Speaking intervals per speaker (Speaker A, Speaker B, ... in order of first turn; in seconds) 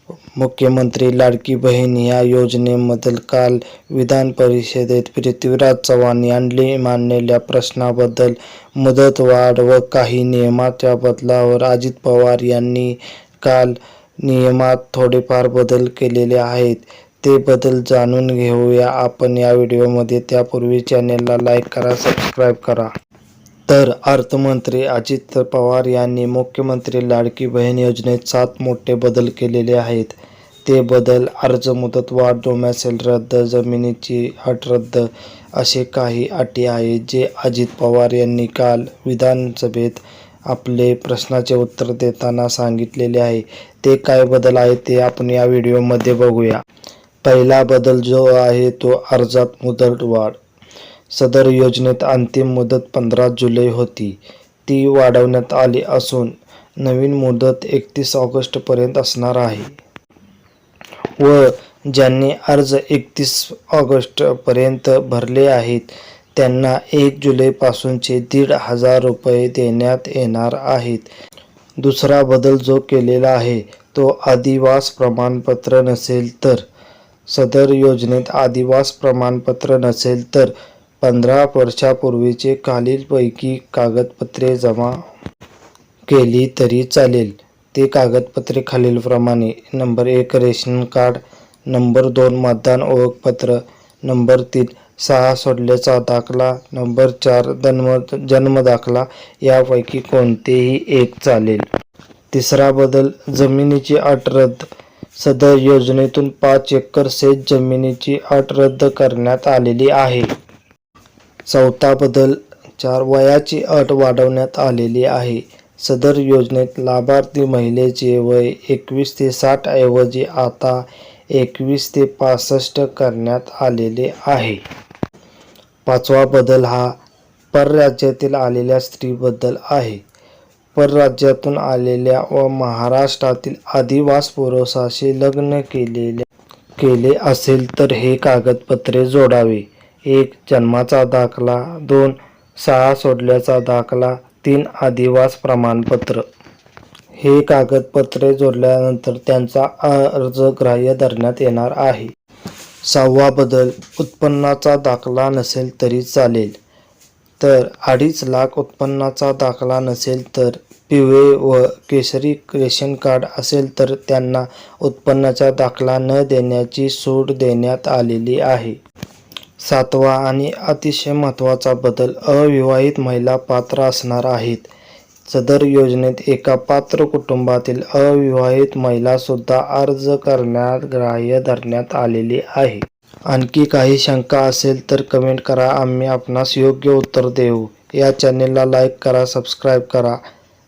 Speaker A: 0.4-22.9, 23.7-46.6, 47.2-50.4, 51.1-59.8, 61.2-71.1, 71.8-76.6, 77.3-85.0, 86.1-101.7, 102.3-110.3, 111.5-124.6, 125.9-126.9, 127.5-130.0, 130.8-136.2, 136.8-146.2, 147.2-152.1, 152.9-156.6, 157.4-168.8, 169.6-174.7, 175.3-190.2